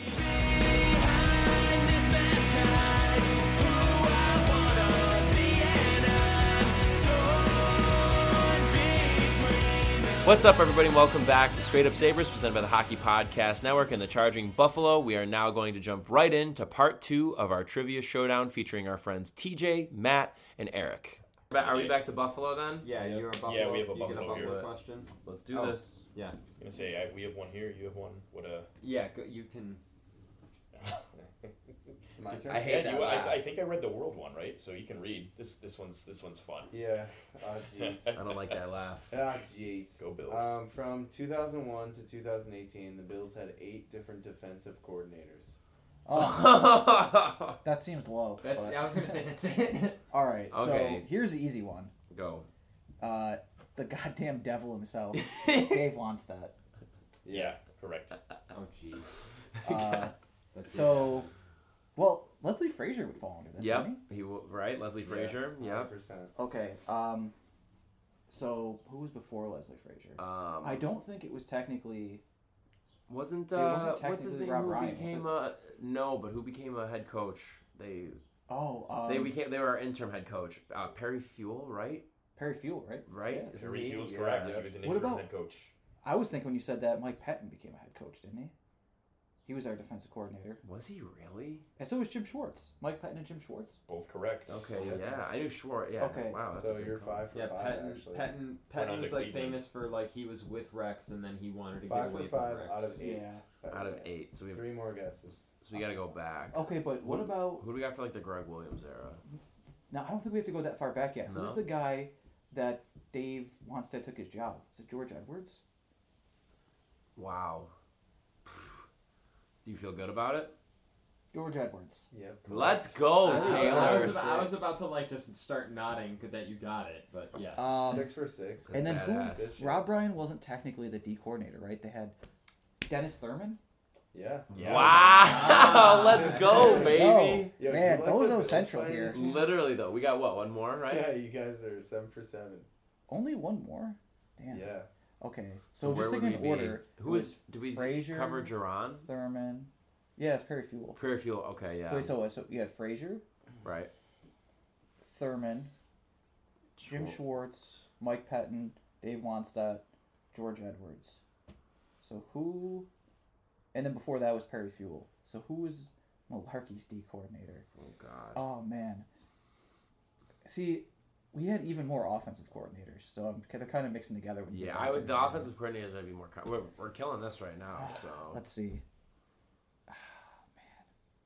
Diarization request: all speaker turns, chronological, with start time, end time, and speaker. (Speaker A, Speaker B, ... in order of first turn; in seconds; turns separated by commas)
Speaker A: 0.6-9.6, Speaker A: 10.2-22.9, Speaker B: 21.5-22.0, Speaker C: 22.8-26.4, Speaker D: 22.9-23.3, Speaker B: 23.4-24.6, Speaker A: 24.0-24.7, Speaker A: 25.2-26.0, Speaker B: 26.6-28.7, Speaker C: 28.8-29.8, Speaker D: 32.2-32.8, Speaker A: 32.5-33.5, Speaker B: 32.5-36.7, Speaker D: 36.7-38.2, Speaker B: 37.8-38.6, Speaker A: 38.1-39.1, Speaker D: 39.1-45.6, Speaker B: 40.0-40.6, Speaker E: 46.0-46.8, Speaker A: 46.1-47.6, Speaker E: 47.6-48.5, Speaker C: 48.4-50.0, Speaker D: 48.5-48.8, Speaker E: 50.1-51.9, Speaker A: 50.5-51.1, Speaker A: 52.1-52.5, Speaker E: 53.0-56.5, Speaker A: 55.1-55.9, Speaker D: 57.3-57.5, Speaker B: 57.3-58.2, Speaker C: 58.5-59.2, Speaker E: 59.6-60.1, Speaker A: 59.6-60.1, Speaker C: 60.5-61.2, Speaker E: 60.7-61.3, Speaker E: 62.0-64.0, Speaker A: 63.6-65.9, Speaker D: 65.0-66.3, Speaker E: 66.3-67.3, Speaker E: 68.3-72.2, Speaker A: 70.2-70.9, Speaker A: 73.1-78.2, Speaker E: 73.5-75.3, Speaker E: 78.5-79.4, Speaker A: 79.1-82.1, Speaker E: 82.3-83.6, Speaker A: 83.1-84.7, Speaker B: 83.5-85.7, Speaker E: 84.8-85.3, Speaker E: 86.0-88.5, Speaker E: 89.4-90.6, Speaker A: 90.7-91.6, Speaker E: 91.8-93.8, Speaker B: 93.9-94.8, Speaker A: 94.5-97.3, Speaker D: 94.8-95.2, Speaker E: 96.0-96.4, Speaker D: 96.5-98.3, Speaker C: 97.3-103.0, Speaker B: 98.7-99.7, Speaker D: 101.8-105.5, Speaker E: 103.0-103.4, Speaker A: 103.7-104.7, Speaker A: 105.6-109.2, Speaker E: 106.5-107.6, Speaker E: 109.9-115.6, Speaker A: 111.3-111.7, Speaker A: 117.2-117.7, Speaker A: 118.5-118.7, Speaker A: 119.6-120.5, Speaker E: 121.3-122.1, Speaker D: 122.1-124.8, Speaker A: 122.5-124.2, Speaker E: 123.2-124.1, Speaker C: 123.2-127.8, Speaker E: 127.5-128.1, Speaker D: 127.8-129.9, Speaker A: 128.7-129.6, Speaker E: 128.7-132.1, Speaker E: 132.8-133.6, Speaker D: 134.1-135.1, Speaker A: 134.5-137.5, Speaker B: 134.5-135.2, Speaker C: 135.2-136.9, Speaker D: 135.9-139.4, Speaker E: 136.7-139.2, Speaker A: 139.1-141.1, Speaker D: 140.8-142.7, Speaker E: 143.1-151.0, Speaker D: 144.5-144.9, Speaker A: 145.8-149.1, Speaker A: 150.9-152.2, Speaker E: 151.9-153.2, Speaker A: 153.6-153.9, Speaker E: 155.0-155.7, Speaker A: 156.8-157.8, Speaker E: 156.8-161.2, Speaker E: 162.0-162.9, Speaker E: 163.7-167.7, Speaker A: 167.8-168.4, Speaker E: 168.3-169.1, Speaker E: 170.4-175.5, Speaker A: 174.5-178.4, Speaker E: 177.8-178.8, Speaker E: 179.9-180.8